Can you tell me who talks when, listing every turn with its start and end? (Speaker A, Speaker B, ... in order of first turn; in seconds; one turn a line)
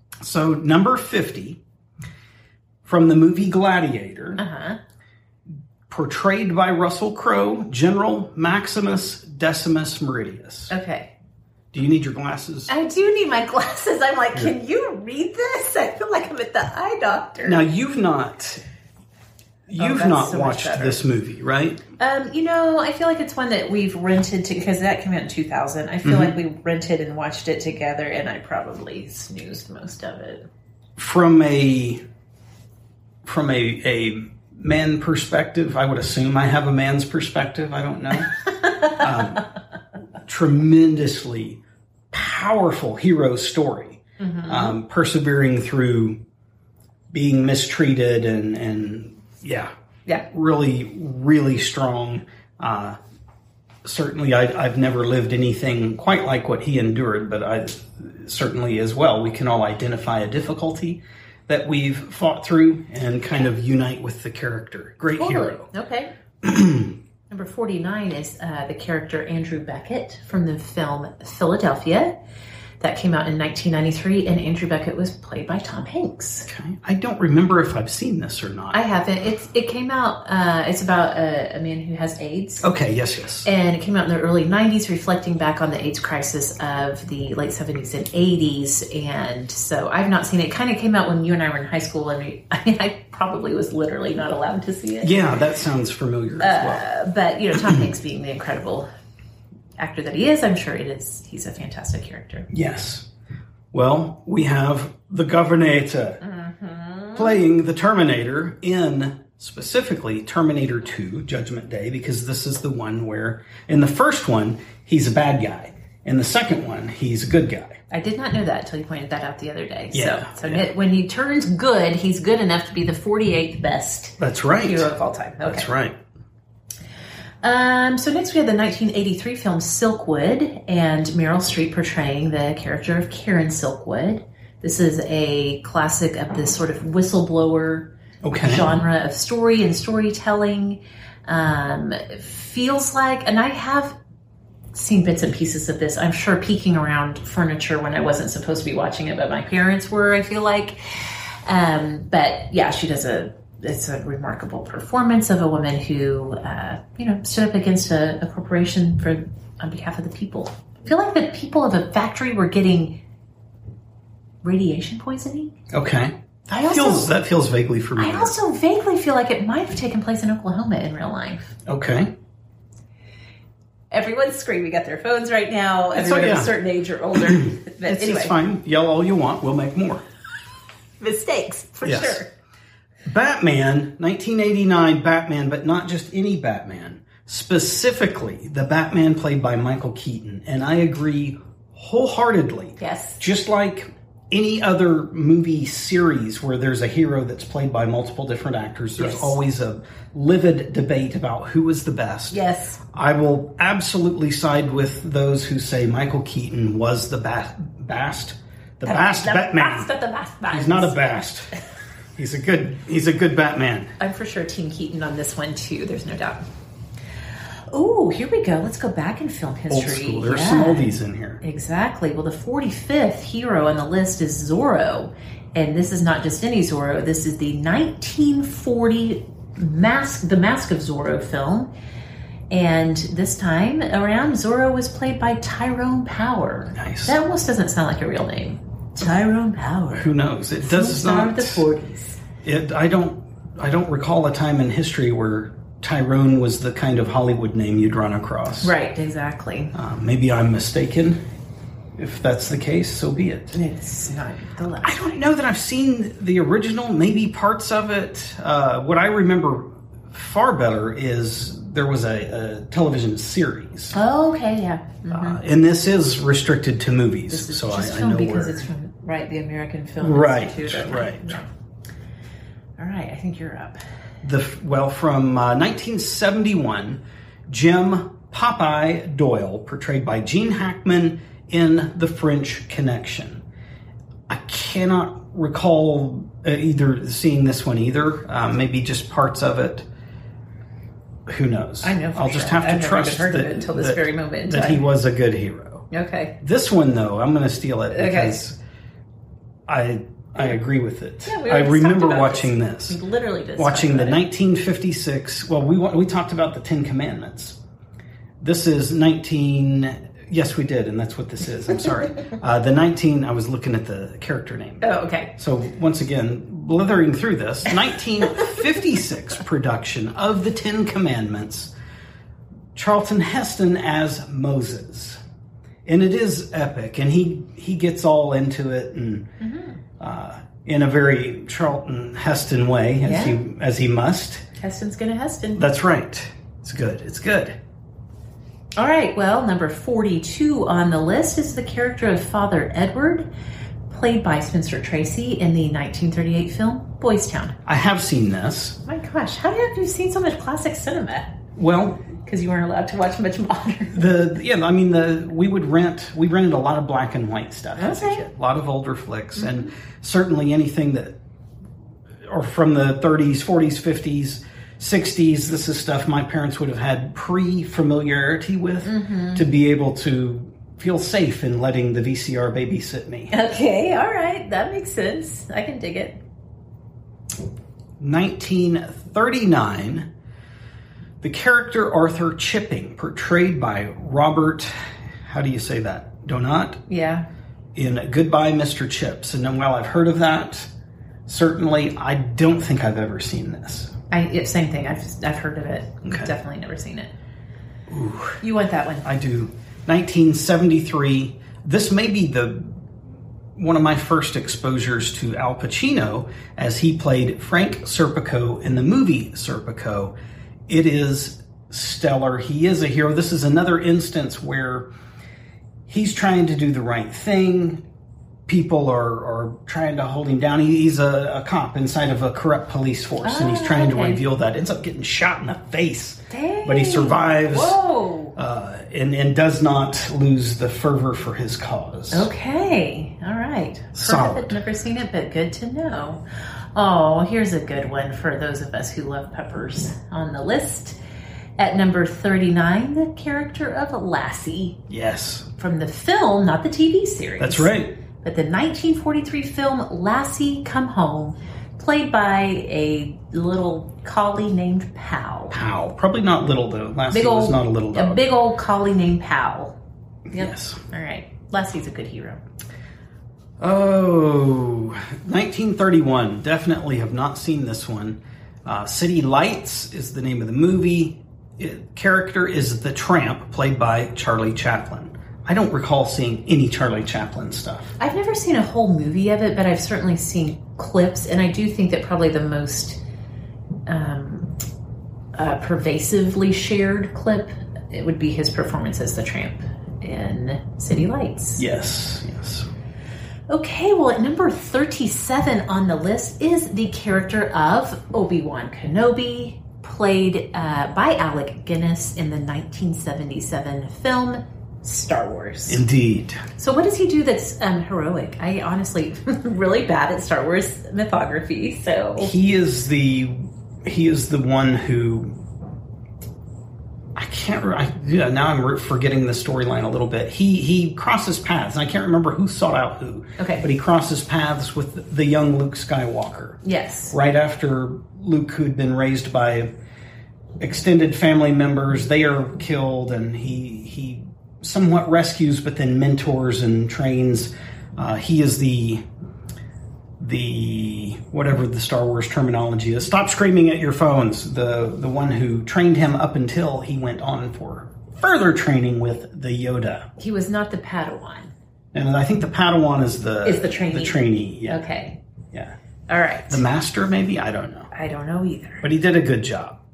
Speaker A: 0.2-1.6
Speaker A: 2.8-4.4
Speaker B: 4.4-4.8
Speaker A: 5.9-10.7
Speaker B: 10.7-11.1
Speaker A: 11.7-12.7
Speaker B: 12.7-17.6
Speaker A: 17.4-18.6
Speaker A: 19.7-21.8
Speaker B: 19.8-21.0
Speaker B: 22.0-30.5
Speaker A: 26.0-26.4
Speaker A: 31.0-32.0
Speaker A: 33.2-39.4
Speaker A: 40.2-41.6
Speaker A: 42.1-46.2
Speaker B: 44.2-44.8
Speaker A: 47.1-49.7
Speaker A: 50.2-53.0
Speaker A: 53.8-65.7
Speaker B: 65.2-66.1
Speaker A: 66.4-67.0
Speaker B: 67.3-72.2
Speaker B: 72.8-76.5
Speaker A: 76.5-78.8
Speaker B: 78.7-82.7
Speaker A: 82.6-83.5
Speaker B: 83.4-95.2
Speaker A: 95.0-96.8
Speaker B: 96.4-98.9
Speaker B: 99.8-102.5
Speaker A: 102.5-103.1
Speaker A: 103.7-106.2
Speaker B: 106.2-107.4
Speaker A: 107.1-117.8
Speaker B: 117.9-125.7
Speaker A: 119.9-120.7
Speaker A: 124.2-124.9
Speaker A: 125.4-126.0
Speaker B: 127.4-143.9
Speaker A: 138.2-138.7
Speaker B: 144.7-163.0
Speaker B: 164.4-165.5
Speaker A: 165.7-168.3
Speaker B: 166.5-167.1
Speaker B: 168.0-171.5
Speaker A: 171.7-172.1
Speaker B: 173.9-178.3
Speaker A: 175.9-176.5
Speaker A: 177.1-180.1
Speaker B: 181.0-182.3
Speaker A: 181.8-182.2
Speaker A: 183.0-202.4
Speaker B: 192.8-193.2
Speaker B: 199.0-199.4
Speaker B: 202.3-202.8
Speaker A: 202.9-209.9
Speaker B: 208.8-211.0
Speaker A: 210.5-211.5
Speaker A: 212.2-213.9
Speaker B: 214.0-216.4
Speaker B: 217.7-231.7
Speaker A: 219.7-221.4
Speaker B: 232.5-242.2
Speaker A: 236.8-237.2
Speaker A: 239.9-241.7
Speaker A: 242.4-248.7
Speaker B: 248.6-249.7
Speaker A: 249.7-251.2
Speaker A: 251.9-253.6
Speaker B: 253.5-255.1
Speaker A: 254.8-263.9
Speaker B: 263.9-265.4
Speaker A: 265.1-268.7
Speaker B: 267.3-271.5
Speaker A: 270.0-271.4
Speaker B: 272.8-273.8
Speaker A: 274.2-283.4
Speaker A: 284.3-289.9
Speaker A: 291.3-295.9
Speaker B: 291.8-294.8
Speaker B: 295.9-296.4
Speaker A: 296.4-298.6
Speaker B: 297.9-298.4
Speaker A: 299.7-303.0
Speaker B: 301.2-304.2
Speaker A: 303.6-307.6
Speaker A: 308.4-321.7
Speaker B: 314.8-315.3
Speaker A: 322.7-325.2
Speaker A: 325.9-329.3
Speaker B: 329.4-329.8
Speaker A: 330.0-334.4
Speaker B: 333.0-333.4
Speaker B: 334.6-335.6
Speaker A: 335.6-337.6
Speaker B: 338.8-343.3
Speaker B: 343.9-347.6
Speaker A: 347.6-348.8
Speaker B: 348.8-351.4
Speaker A: 351.6-352.1
Speaker B: 352.2-354.1
Speaker A: 353.9-361.2
Speaker B: 357.8-358.2
Speaker B: 359.4-359.7
Speaker A: 362.3-373.3
Speaker B: 368.8-369.4
Speaker B: 373.3-376.2
Speaker A: 378.0-380.1
Speaker A: 381.2-384.7
Speaker A: 385.2-386.8
Speaker B: 386.9-387.3
Speaker A: 387.7-390.7
Speaker A: 391.3-393.9
Speaker B: 394.1-397.1
Speaker A: 396.0-396.3
Speaker A: 397.9-398.4
Speaker B: 398.4-399.1
Speaker A: 399.0-402.8
Speaker A: 403.6-410.1
Speaker A: 410.7-414.9
Speaker A: 415.9-417.8
Speaker A: 418.5-427.8
Speaker B: 423.2-424.2
Speaker B: 426.3-428.4
Speaker A: 428.4-432.3
Speaker B: 432.1-436.2
Speaker A: 433.9-434.6
Speaker B: 436.7-441.0
Speaker B: 441.6-444.8
Speaker A: 444.9-445.5
Speaker B: 445.6-455.6
Speaker A: 447.4-448.0
Speaker A: 455.5-458.2
Speaker B: 457.1-459.8
Speaker A: 460.3-460.8
Speaker B: 460.3-462.4
Speaker A: 463.6-478.0
Speaker B: 478.0-483.0
Speaker B: 483.9-484.6
Speaker B: 485.3-491.6
Speaker A: 491.6-492.7
Speaker B: 493.5-505.8
Speaker A: 505.7-506.4
Speaker B: 506.6-512.3
Speaker A: 512.2-515.4
Speaker A: 517.1-529.7
Speaker B: 523.4-523.6
Speaker B: 526.6-527.1
Speaker A: 530.6-539.0
Speaker A: 540.2-550.1
Speaker B: 550.2-551.5
Speaker A: 551.9-554.8
Speaker B: 553.4-555.2
Speaker B: 556.1-556.6
Speaker A: 556.5-557.9
Speaker B: 557.9-558.9
Speaker A: 558.8-559.8